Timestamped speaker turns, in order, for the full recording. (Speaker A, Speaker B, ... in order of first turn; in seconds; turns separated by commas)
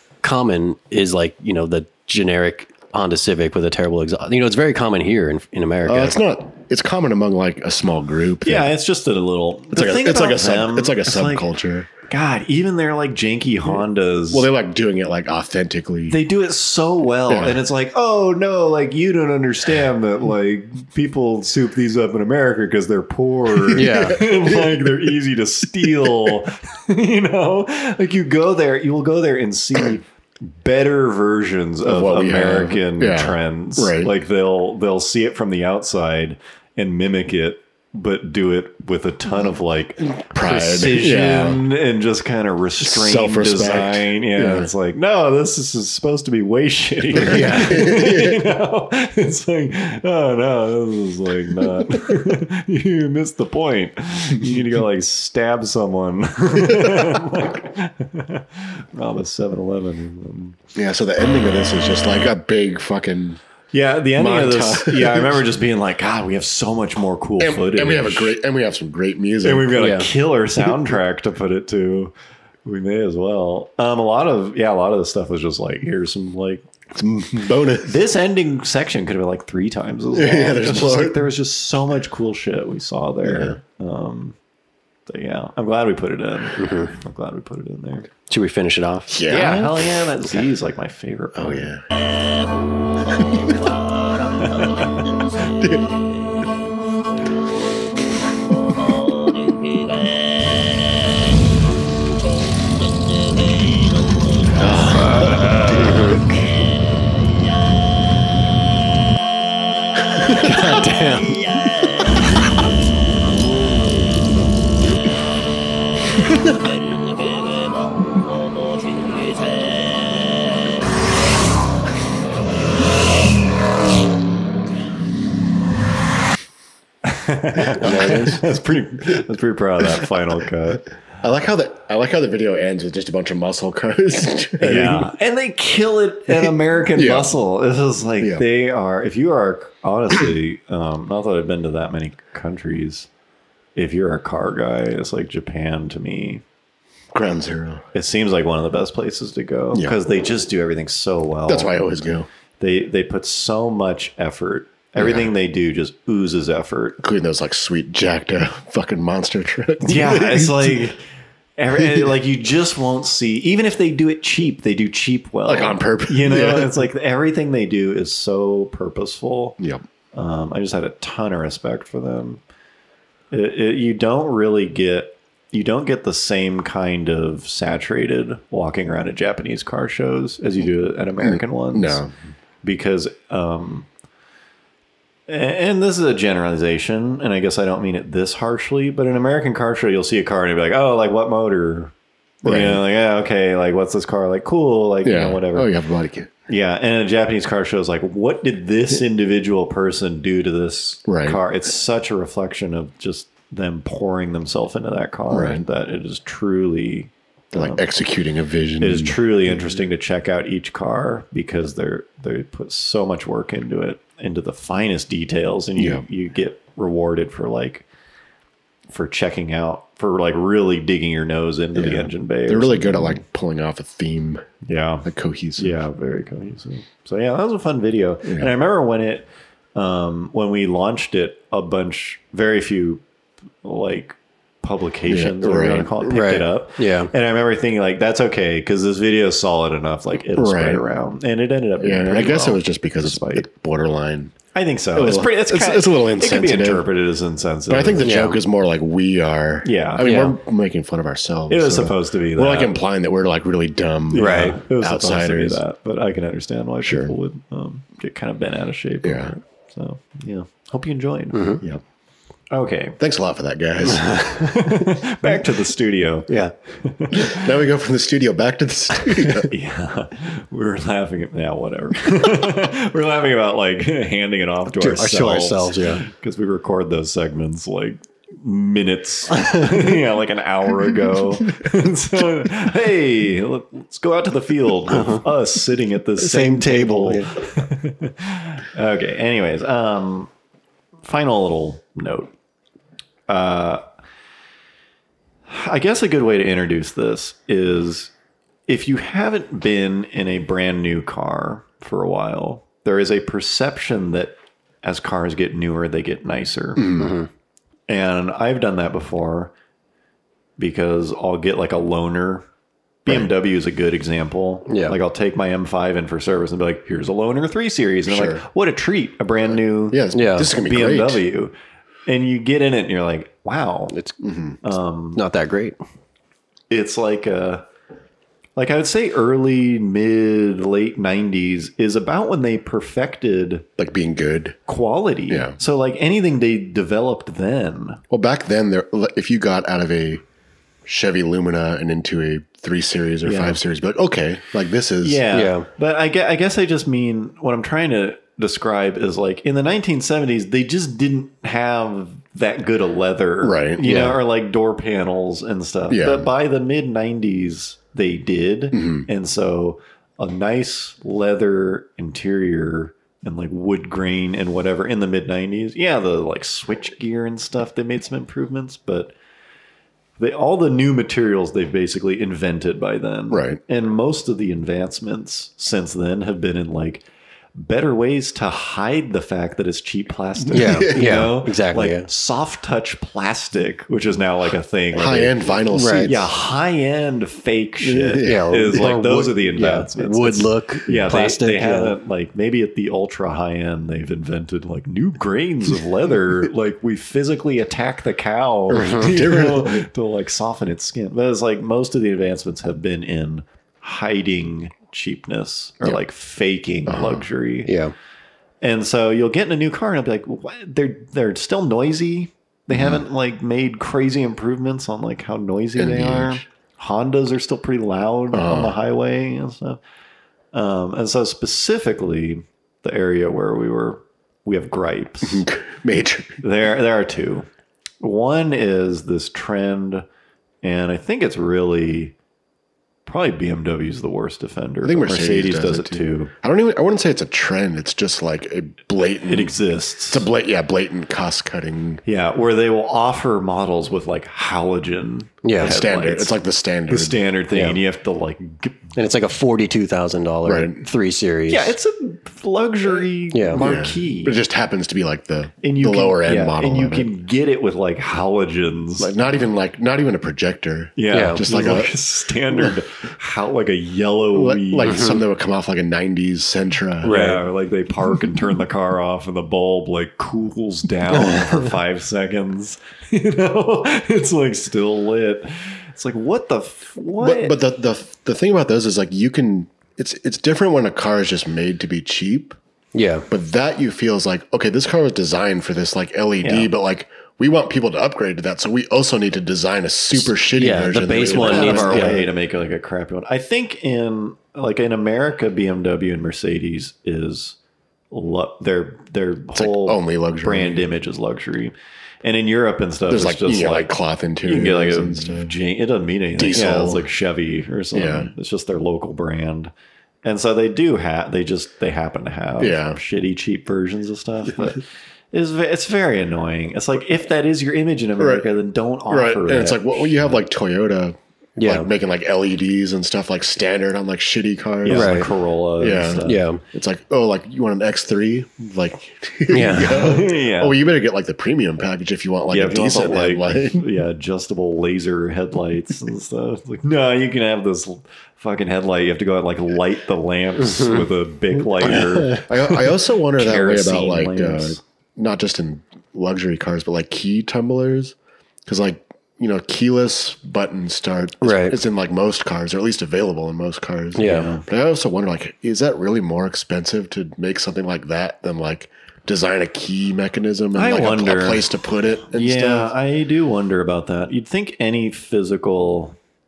Speaker A: 0.2-6.2, Speaker B: 5.9-8.7, Speaker C: 8.4-11.5, Speaker B: 9.7-11.9, Speaker C: 12.1-14.5, Speaker B: 13.7-16.2, Speaker C: 16.1-60.6, Speaker B: 17.3-17.6, Speaker B: 23.7-25.0, Speaker A: 23.8-24.2, Speaker B: 25.9-26.4, Speaker B: 31.8-34.1, Speaker B: 40.2-41.6, Speaker B: 42.8-44.7, Speaker B: 47.2-48.5, Speaker A: 47.2-47.7, Speaker B: 60.8-63.4, Speaker C: 63.7-68.3, Speaker B: 64.2-65.5, Speaker B: 67.4-69.8, Speaker C: 69.4-72.1, Speaker A: 69.8-70.1, Speaker C: 72.7-76.6, Speaker B: 77.0-78.0, Speaker C: 77.8-84.4, Speaker B: 80.1-81.2, Speaker B: 83.2-83.6, Speaker C: 85.1-88.1, Speaker A: 86.6-86.9, Speaker A: 88.3-89.2, Speaker B: 89.1-89.9, Speaker C: 89.3-91.7, Speaker B: 91.3-91.8, Speaker B: 93.3-93.6, Speaker C: 94.5-94.9, Speaker B: 95.6-95.8, Speaker B: 104.6-105.8, Speaker C: 104.6-106.4, Speaker A: 105.7-106.2, Speaker B: 110.2-110.8, Speaker C: 110.4-111.3, Speaker A: 110.5-111.3, Speaker C: 127.0-130.9, Speaker B: 127.6-128.5, Speaker A: 127.8-128.4, Speaker B: 129.8-130.1, Speaker B: 131.2-135.1, Speaker C: 134.6-143.1, Speaker B: 136.3-137.3, Speaker B: 138.2-138.4, Speaker C: 143.8-146.4, Speaker B: 147.1-147.8, Speaker C: 147.9-151.8, Speaker B: 151.5-152.3, Speaker C: 152.6-157.0, Speaker B: 155.0-155.3, Speaker B: 157.0-160.9, Speaker C: 159.8-161.0, Speaker C: 161.6-169.6, Speaker B: 161.8-162.1, Speaker B: 165.5-166.9, Speaker C: 170.1-172.4, Speaker C: 173.3-182.1, Speaker B: 181.2-182.1, Speaker C: 182.6-183.9, Speaker C: 185.3-195.7, Speaker B: 192.4-192.8, Speaker B: 195.0-196.3, Speaker C: 196.5-207.9, Speaker B: 201.1-201.4, Speaker B: 205.3-205.6, Speaker B: 207.5-209.8, Speaker C: 208.8-217.9, Speaker B: 215.8-216.0, Speaker C: 218.9-223.2, Speaker B: 221.8-224.5, Speaker C: 224.7-233.0, Speaker B: 225.1-225.7, Speaker B: 228.2-228.5, Speaker C: 233.6-243.5, Speaker B: 235.1-235.9, Speaker A: 236.0-237.1, Speaker B: 240.3-240.8, Speaker B: 241.8-244.4, Speaker C: 244.5-248.1, Speaker B: 244.9-246.9, Speaker B: 247.7-255.6, Speaker A: 248.0-248.4, Speaker C: 249.6-250.1, Speaker A: 250.0-250.3, Speaker C: 251.5-252.8, Speaker C: 254.1-261.7, Speaker A: 254.2-254.6, Speaker B: 256.8-257.1, Speaker B: 259.0-259.4, Speaker A: 261.3-261.6, Speaker C: 262.5-263.0, Speaker B: 263.0-264.4, Speaker C: 264.1-266.3, Speaker A: 266.3-266.5, Speaker C: 266.8-267.5, Speaker B: 267.1-269.5, Speaker C: 269.3-290.3, Speaker A: 274.7-276.0, Speaker A: 284.9-285.2, Speaker A: 286.2-287.3, Speaker C: 291.0-292.3, Speaker C: 293.3-293.8, Speaker C: 295.5-298.1, Speaker C: 298.7-306.9, Speaker B: 306.8-307.1, Speaker A: 307.0-307.3, Speaker C: 307.9-309.5, Speaker C: 310.6-312.5, Speaker C: 313.1-321.5, Speaker A: 314.7-315.0, Speaker B: 318.1-318.4, Speaker B: 319.5-321.2, Speaker A: 320.1-320.5, Speaker C: 322.1-323.9, Speaker B: 324.2-324.6, Speaker C: 324.6-325.2, Speaker A: 325.1-325.8, Speaker C: 326.7-327.6, Speaker C: 328.6-333.7, Speaker B: 333.8-334.6, Speaker C: 334.7-338.0, Speaker B: 335.3-335.6, Speaker B: 338.1-340.2, Speaker B: 340.9-345.2, Speaker C: 343.2-343.6, Speaker C: 345.0-369.1, Speaker A: 345.3-345.7, Speaker B: 353.4-353.9, Speaker A: 353.8-354.2, Speaker B: 355.9-356.3, Speaker B: 358.7-359.1, Speaker C: 370.2-377.0, Speaker B: 373.3-373.6, Speaker C: 377.6-407.7, Speaker B: 380.5-381.2, Speaker A: 380.5-382.1, Speaker B: 384.9-386.3, Speaker A: 385.7-386.1, Speaker B: 387.8-388.8, Speaker A: 388.2-391.9, Speaker B: 398.7-399.9, Speaker A: 398.8-399.1, Speaker B: 406.9-407.3, Speaker A: 407.6-407.9, Speaker C: 408.6-419.8, Speaker B: 412.7-413.1, Speaker B: 415.8-416.4, Speaker B: 418.3-418.8, Speaker C: 420.5-425.5, Speaker B: 425.2-426.4, Speaker C: 426.4-427.5, Speaker C: 428.0-430.1, Speaker C: 430.6-432.1, Speaker C: 433.1-436.3, Speaker B: 434.8-439.6, Speaker C: 439.3-440.3, Speaker B: 440.1-442.0, Speaker C: 442.1-446.4, Speaker A: 445.4-445.7, Speaker B: 445.6-447.2, Speaker C: 446.9-448.9, Speaker A: 447.5-447.8, Speaker A: 449.0-451.8, Speaker B: 450.4-450.9, Speaker C: 451.5-454.4, Speaker A: 453.3-453.6, Speaker B: 453.6-457.1, Speaker C: 455.6-459.1, Speaker B: 459.0-461.9, Speaker C: 461.0-465.1, Speaker A: 461.1-461.4, Speaker B: 464.3-467.2, Speaker A: 464.9-465.2, Speaker A: 467.0-467.4, Speaker C: 467.1-477.6, Speaker A: 471.1-471.5, Speaker B: 477.2-482.6, Speaker A: 482.9-483.3, Speaker B: 483.3-492.3, Speaker C: 486.4-486.7, Speaker A: 490.5-492.2, Speaker C: 491.2-497.6, Speaker C: 498.1-503.9, Speaker B: 499.5-500.9, Speaker B: 503.1-505.5, Speaker C: 504.4-509.7, Speaker B: 506.4-507.1, Speaker B: 507.9-508.3, Speaker C: 510.2-520.4, Speaker B: 512.6-513.0, Speaker B: 518.2-518.5, Speaker B: 519.1-534.0, Speaker A: 521.6-521.9, Speaker C: 524.8-526.4, Speaker A: 524.9-525.3, Speaker A: 526.2-526.6, Speaker A: 529.5-530.1, Speaker C: 529.8-530.8, Speaker C: 532.5-544.8, Speaker A: 540.7-541.0, Speaker B: 541.8-548.1, Speaker B: 548.7-562.9, Speaker A: 551.4-551.8, Speaker A: 554.2-554.5, Speaker C: 554.2-554.6, Speaker C: 560.7-561.6, Speaker C: 562.3-566.2